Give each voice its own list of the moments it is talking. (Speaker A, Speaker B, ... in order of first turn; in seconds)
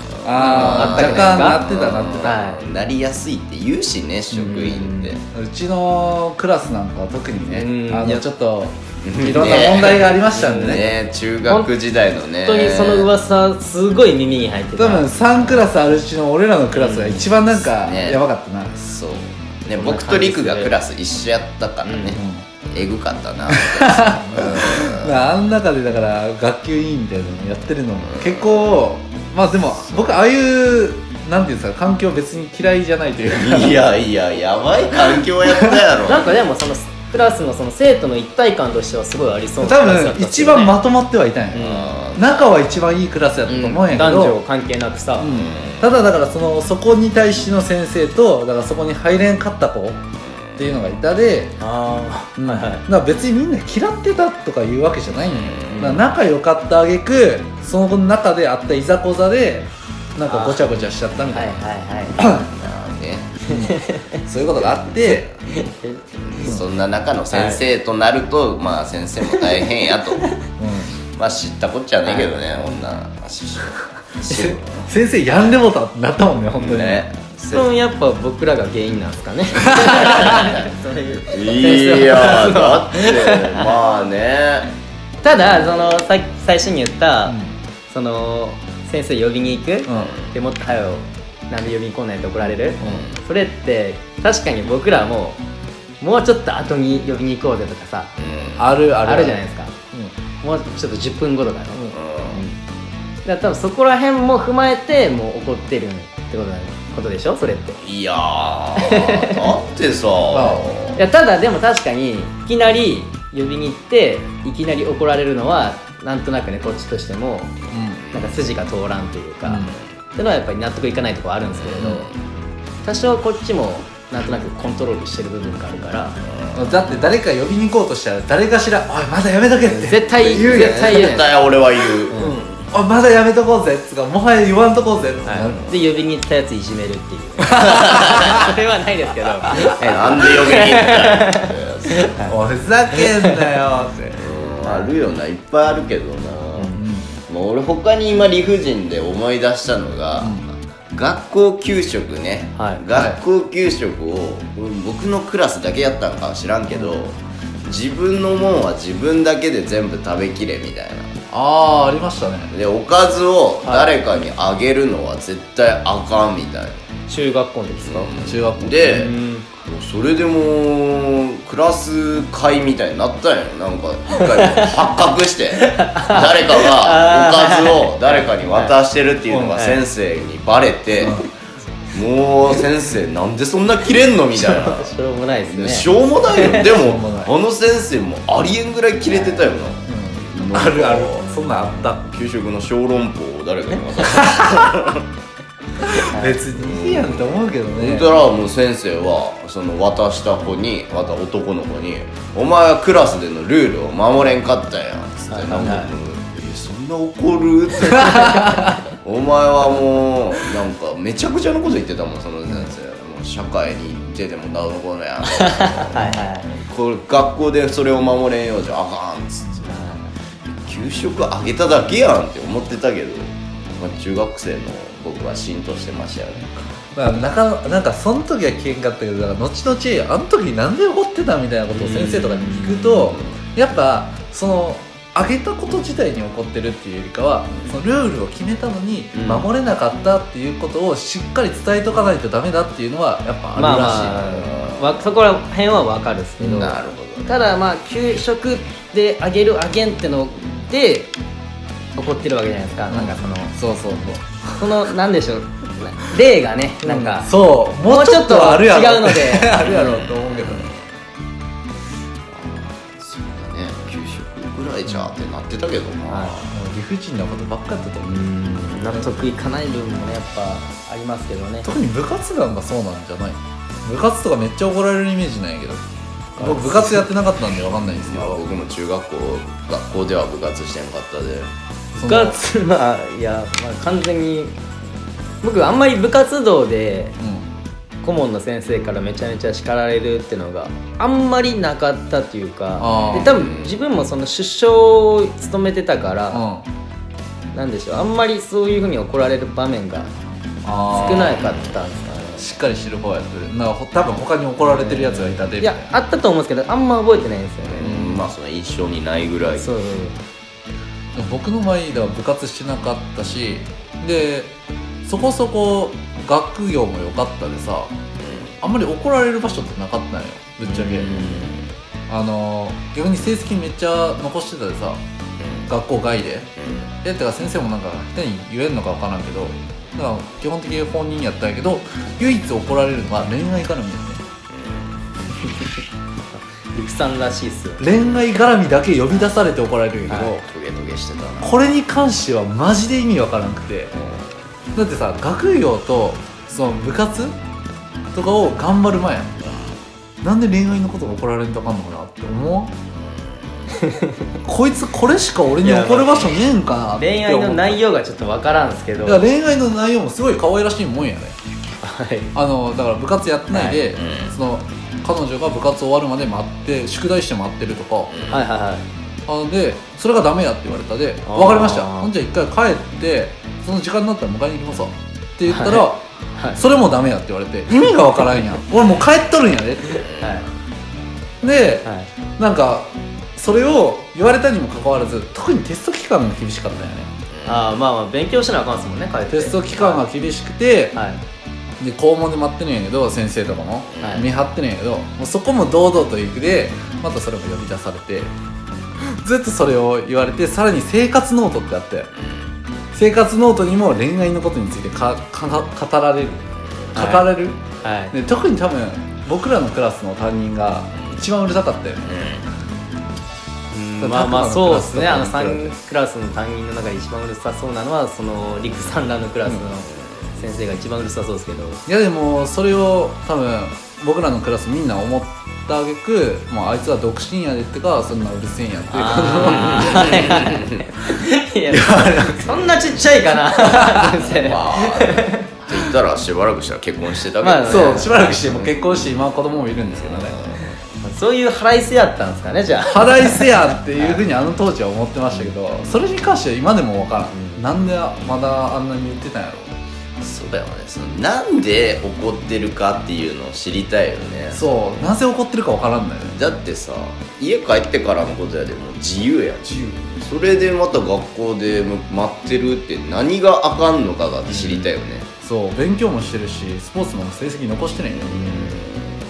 Speaker A: 0.2-5.2, 9.0-13.1, 16.7-18.2, 18.8-25.1, 28.0-28.9, 33.4-36.5, 41.6-42.5, 45.3-45.9, 50.2-50.8, 55.2-56.0, 62.2-63.4, 66.3-70.3, 71.2-74.8, 76.5-77.7, 80.0-80.6, 81.3-84.7, 89.9-90.3, 92.8-93.2, 98.2-98.7, 101.9-102.4, 107.8-111.0, 118.0-118.5, 121.5-122.3, 126.2-126.8, 130.2-132.3, 135.4-135.8, 137.7-138.5, 139.6-142.1, 144.1-150.4, 150.9-161.2, 162.5-166.8, 167.8-169.1, 169.6-181.3, 181.9-184.9, 185.5-195.1, 196.5-219.8, 220.6-226.6, 231.9-233.4, 239.1-239.5, 244.3-245.1, 246.5-247.3, 259.6-260.8, 262.3-266.5, 277.9-281.5, 292.8-293.7, 301.2-301.7, 307.6-309.7, 318.2-318.5, 320.6-321.7, 325.4-325.7, 326.6-326.9, 334.5-334.8, 340.4-341.5, 343.9-344.3, 349.4-349.8, 363.9-364.3, 368.1-368.4, 380.0-380.3, 387.3-387.6, 393.9-394.3, 402.2-402.5, 410.9-411.2, 412.0-412.4, 429.6-430.6, 434.4-439.0, 439.8-440.8, 450.2-454.6, 456.3-465.3, 468.1-469.1
Speaker B: 0.2-2.4, 5.3-10.8, 14.8-18.8, 22.1-22.5, 23.5-33.9, 35.4-35.8, 39.6-44.4, 45.2-50.0, 50.6-51.6, 52.4-61.6, 62.2-62.5, 63.5-65.3, 70.6-71.0, 74.3-77.0, 79.8-80.3, 87.2-87.5, 89.9-90.2, 92.8-93.1, 98.6-100.1, 110.3-110.7, 117.7-118.0, 119.4-119.7, 126.5-130.9, 132.1-135.6, 137.4-138.4, 142.3-144.1, 146.7-147.1, 150.2-150.4, 152.9-153.2, 161.3-162.5, 168.2-169.0, 179.3-179.8, 181.0-181.2, 186.7-187.3, 189.9-192.1, 194.3-194.6, 195.8-198.1, 216.0-216.2, 226.9-244.4, 246.4-246.7, 252.9-254.7, 256.8-260.7, 264.9-265.1, 266.4-268.2, 271.6-275.8, 276.4-278.4, 281.9-282.4, 287.2-287.5, 292.8-293.3, 296.3-296.6, 300.6-301.4, 302.4-305.9, 307.8-308.3, 311.1-317.9, 318.6-321.5, 322.1-325.0, 325.7-326.5, 327.0-334.2, 337.8-340.4, 341.4-343.9, 344.7-347.3, 348.1-349.4, 350.2-352.7, 354.4-357.8, 359.0-361.4, 362.3-368.1, 369.3-380.0, 381.4-387.1, 389.3-390.9, 391.8-398.3, 399.0-402.1, 402.9-406.4, 406.9-412.1, 414.0-415.8, 421.9-430.3, 431.7-432.7, 433.6-434.2, 437.6-440.4, 442.8-449.7, 454.5-456.4, 459.7-460.0, 465.4-468.4
Speaker C: 0.3-1.6, 2.2-2.6, 4.3-5.2, 7.5-8.3, 10.3-10.8, 11.5-11.7, 12.4-15.6, 19.8-20.7, 21.8-22.2, 36.0-40.8, 41.5-42.0, 43.5-45.4, 51.6-52.9, 55.7-56.0, 60.2-62.2, 63.5-64.2, 65.5-66.6, 67.3-67.6, 72.0-72.3, 77.5-83.7, 85.2-87.4, 87.9-95.4, 96.0-98.1, 99.0-99.7, 100.4-102.6, 103.2-107.8, 108.8-109.5, 110.9-117.5, 118.1-119.6, 120.2-122.1, 122.8-126.2, 129.7-131.4, 132.1-132.4, 135.2-142.4, 142.9-143.5, 144.6-144.9, 146.5-146.8, 152.6-152.8, 163.6-163.9, 167.1-168.1, 168.8-169.5, 174.1-174.9, 175.6-178.7, 184.3-186.7, 189.1-189.5, 196.1-196.4, 205.3-205.9, 208.1-208.7, 215.2-216.6, 219.6-220.1, 231.8-232.0, 243.6-251.1, 251.9-253.6, 254.6-259.7, 266.1-266.4, 268.0-271.7, 276.4-277.0, 281.9-284.5, 285.4-287.2, 288.0-296.4, 297.5-300.1, 300.9-302.5, 304.6-308.0, 309.6-310.2, 336.3-337.9, 340.1-340.3, 353.7-354.1, 355.6-359.2, 361.8-362.3, 363.5-363.8, 368.3-368.9, 371.2-372.1, 375.5-376.6, 379.9-380.4, 381.8-382.1, 387.4-390.0, 390.9-391.2, 394.0-394.2, 406.9-407.3, 407.8-408.1, 413.7-421.8, 428.9-435.5, 437.4-438.3, 441.0-444.2, 447.3-447.6, 464.5-464.9, 468.2-468.8